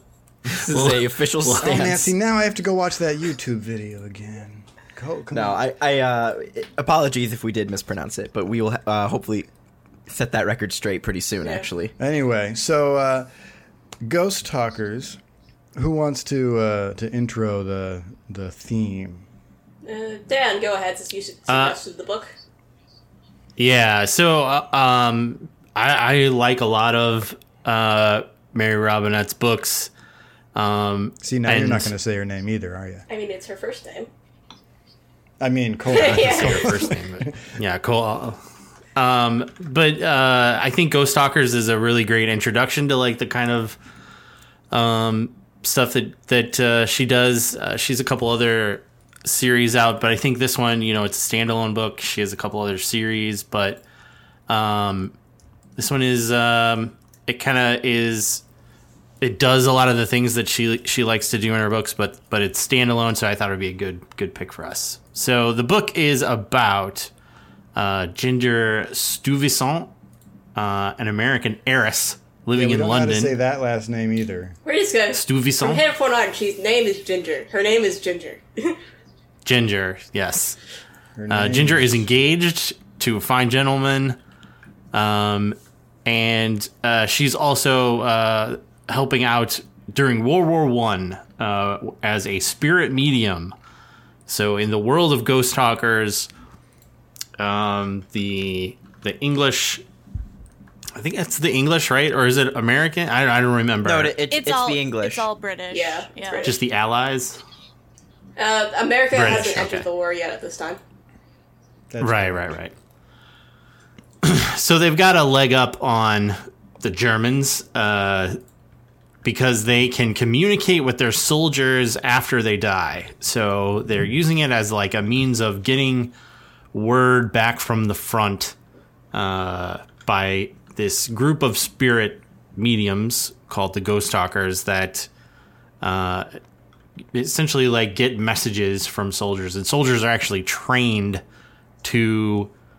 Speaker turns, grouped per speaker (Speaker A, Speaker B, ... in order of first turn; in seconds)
Speaker A: 0.5-2.1, 5.3-9.5, 10.1-11.9, 103.8-105.3
Speaker B: 0.6-1.9, 21.5-21.8, 23.6-29.9, 30.6-31.9, 35.9-38.4, 39.0-43.8, 44.7-53.8, 54.5-55.1, 55.8-58.4, 59.2-67.1, 67.8-69.9, 70.6-73.3, 75.1-75.8, 79.5-80.6, 81.3-84.2, 84.9-93.5, 94.3-96.3, 97.4-99.8, 101.0-104.2, 106.4-107.4, 109.1-109.9, 112.0-112.7, 114.2-118.4, 119.2-126.1, 126.7-128.6, 129.1-135.1, 135.8-136.4, 137.1-141.2, 141.8-142.5
Speaker C: 1.6-5.6, 12.0-13.3, 14.0-15.2, 15.8-19.3, 31.2-33.1, 35.4-37.3, 72.5-74.6, 81.2-82.0, 111.9-112.6
Speaker D: 11.4-11.7, 19.8-22.3, 33.1-34.1, 35.9-36.8, 74.7-78.8, 105.7-106.6, 108.4-110.8
Speaker E: 104.3-106.5